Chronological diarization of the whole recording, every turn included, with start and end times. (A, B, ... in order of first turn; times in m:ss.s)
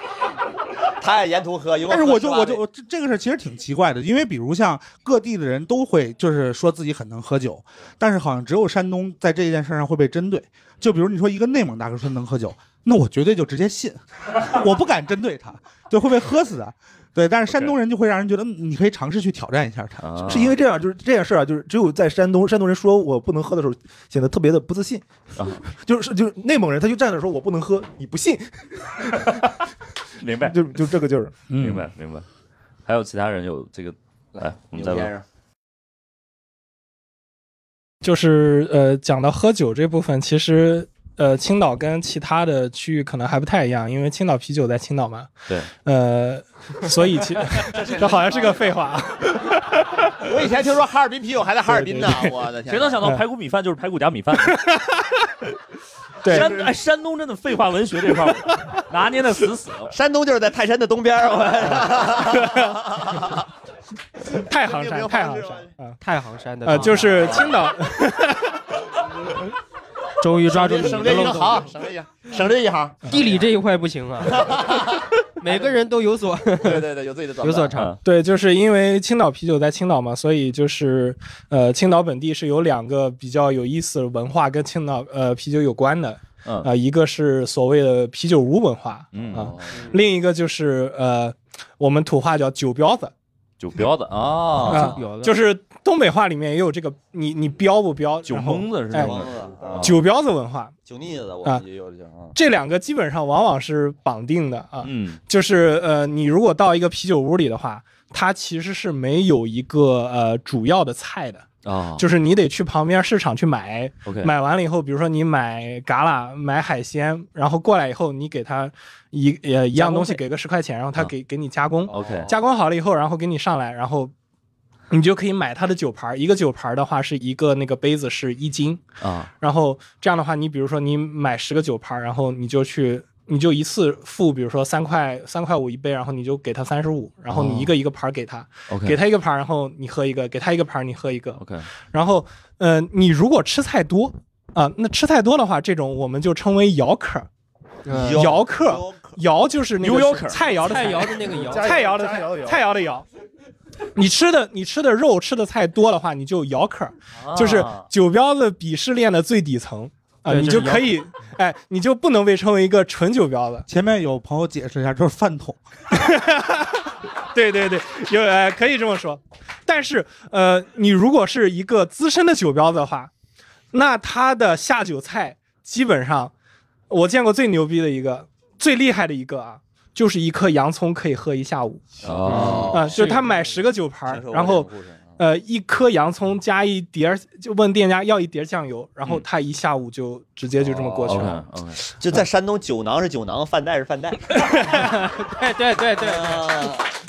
0:01.0-0:02.6 A
0:01.8-0:20.3 B
0:20.0-0:20.6 C
0:20.2-0:25.0 D
0:25.4-0:25.6 C
0:25.6-0:29.3 D
0:30.2-0:30.8 C
0:30.4-0:31.3 D
0:31.5-0:31.9 B
0:31.6-0:32.2 C
0:32.8-0:35.1 C
0:34.3-0:35.2 A
0:38.0-0:45.3 E
0:45.8-0:49.8 E
0:47.7-0:48.7 A
0:50.2-0:53.0 A
0:51.6-0:52.3 E
0:52.7-0:54.7 C
0:54.4-0:55.1 E
0:56.2-0:56.6 E
0:56.2-0:59.9 C
0:56.3-0:56.6 A
0:59.9-1:03.4 A
1:04.3-1:06.0 E
1:04.5-1:05.7 A
1:06.0-1:07.4 F
1:06.6-1:08.6 E
1:07.2-1:07.5 A
1:10.2-1:11.7 F
1:10.4-1:13.3 A
1:13.1-1:14.6 F
1:14.2-1:15.7 A
1:15.4-1:16.9 F
1:16.6-1:17.8 A
1:17.4-1:17.9 F
1:18.0-1:33.1 E
1:29.1-1:29.5 C
1:29.4-1:29.9 A
1:33.6-1:35.0 C
1:34.6-1:39.2 E
1:34.7-1:35.4 F
1:38.2-1:40.0 C
1:38.9-1:40.0 A
1:39.8-1:40.7 E
1:40.8-1:42.4 A
1:42.3-1:51.5 E
1:44.8-1:45.2 C
1:51.6-1:52.0 C
1:52.0-2:04.1 E
1:54.0-1:54.3 C
2:00.0-2:00.2 C
2:01.9-2:02.4 C
2:04.9-2:08.8 E
2:09.0-2:09.3 C
2:09.4-2:21.4 E
2:17.3-2:17.7 C
2:18.7-2:19.0 C
2:21.4-2:21.6 C
2:21.9-2:27.3 E
2:27.8-2:28.3 F
2:27.9-2:29.2 A
2:28.1-2:33.0 E
2:29.8-2:30.6 C
2:29.8-2:31.8 F
2:31.4-2:32.6 D
2:34.0-2:43.6 E
2:37.2-2:37.9 C
2:40.2-2:41.0 F
2:43.7-2:45.6 B
2:45.9-2:53.1 E
2:53.7-2:56.3 E
2:56.9-3:01.8 E
3:02.0-3:05.2 A
3:02.0-3:02.9 C
3:02.2-3:03.3 F
3:02.7-3:11.4 E
3:10.6-3:11.2 A
3:11.0-3:11.8 C
3:12.0-3:14.3 A
3:14.4-3:15.2 E
3:15.3-3:16.7 F
3:16.0-3:16.8 A